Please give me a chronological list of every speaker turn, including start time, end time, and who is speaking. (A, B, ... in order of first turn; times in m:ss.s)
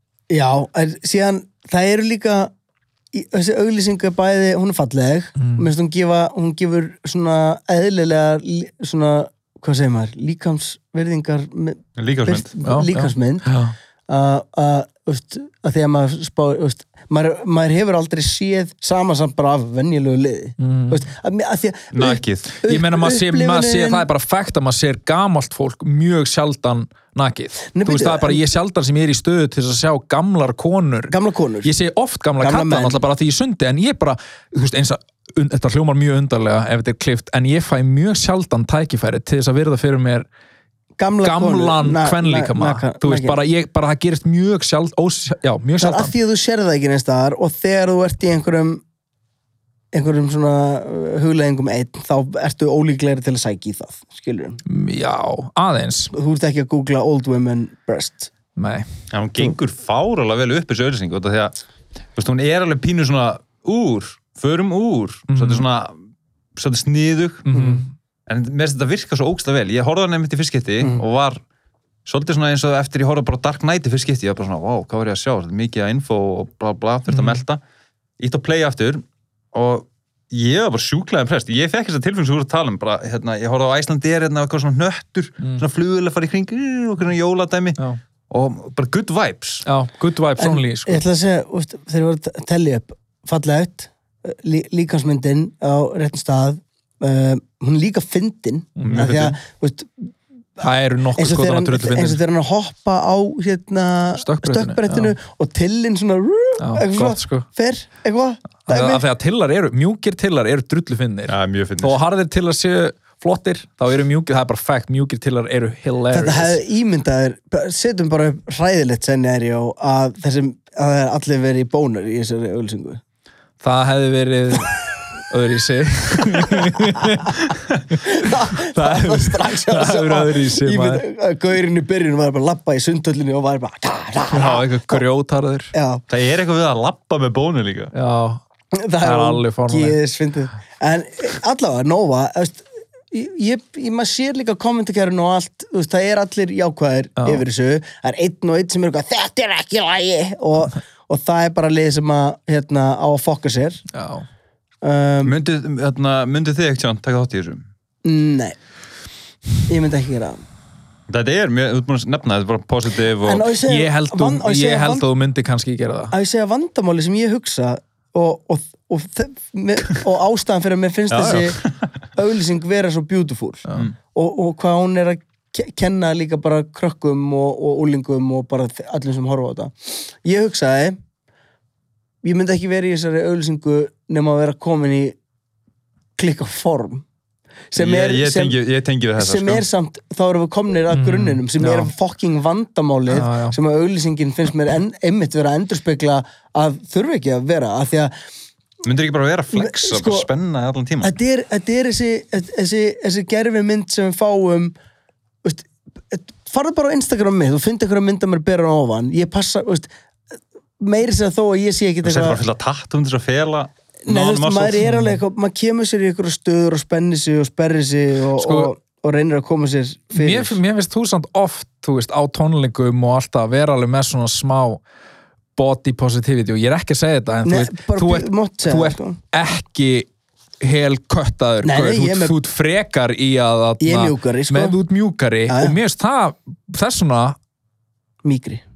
0:00.3-0:02.5 A
0:03.1-0:13.5 A
0:05.4-0:05.6 B
0:12.0-0:12.5 C
0:12.6-0:13.7 B
0:14.1-0:24.1 A
0:20.6-0:21.0 B
0:21.9-0:22.5 C
0:22.6-0:31.1 B
0:27.7-0:28.4 A
0:31.1-0:31.7 A
0:31.6-0:40.2 B
0:32.4-0:33.0 A
0:41.0-0:43.4 A
0:41.2-0:46.1 B
0:45.8-0:48.8 A
0:49.9-0:54.6 A
0:54.6-0:56.1 B
0:56.1-0:58.3 A
0:58.6-0:58.9 B
0:59.1-1:01.5 C
1:02.2-1:05.9 C
1:05.3-1:05.6 B
1:06.6-1:07.4 C
1:07.4-1:07.9 B
1:07.5-1:07.8 A
1:08.3-1:11.4 C
1:12.0-1:17.6 C
1:17.1-1:17.4 B
1:18.2-1:29.6 C
1:29.6-1:31.0 B
1:30.4-1:40.6 A
1:38.8-1:39.4 B
1:38.8-1:39.2 C
1:40.6-1:42.2 B
1:41.2-1:49.0 A
1:44.2-1:45.1 B
1:46.6-1:47.4 B
1:48.7-1:56.6 B
1:51.3-1:52.0 C
1:56.1-2:03.0 A
2:03.6-2:07.4 B
2:06.8-2:07.2 A
2:07.9-2:11.0 B
2:08.0-2:15.0 A
2:14.3-2:15.7 B
2:15.7-2:16.0 A
2:16.1-2:17.9 C
2:17.9-2:18.4 B
2:18.7-2:33.8 A
2:19.0-2:20.0 B
2:27.2-2:27.4 B
2:33.9-2:34.2 B
2:34.8-2:35.3 A
2:35.2-2:37.6 C
2:38.0-2:38.6 A
2:39.7-2:40.4 A
2:41.1-2:43.5 C
2:43.2-2:45.0 A
2:43.6-2:46.1 B
2:46.1-2:51.6 A
2:51.1-2:51.9 C
2:52.1-3:01.0 A
3:02.2-3:05.2 A
3:06.2-3:07.0 A
3:07.7-3:08.6 A
3:07.8-3:09.6 C
3:09.2-3:18.1 A
3:10.9-3:11.9 B
3:13.1-3:13.6 B
3:18.8-3:21.1 C
3:19.5-3:20.3 A
3:21.0-3:24.7 A
3:25.4-3:32.4 A
3:32.0-3:34.8 C
3:34.0-3:40.6 A
3:34.8-3:35.2 B
3:38.4-3:38.7 B
3:40.1-3:44.8 B
3:45.6-3:50.1 B
3:47.4-3:49.2 A
3:50.6-3:57.4 B
3:51.6-3:52.4 A
3:53.8-3:54.8 A
3:55.5-3:55.8 A
3:58.2-3:58.6 A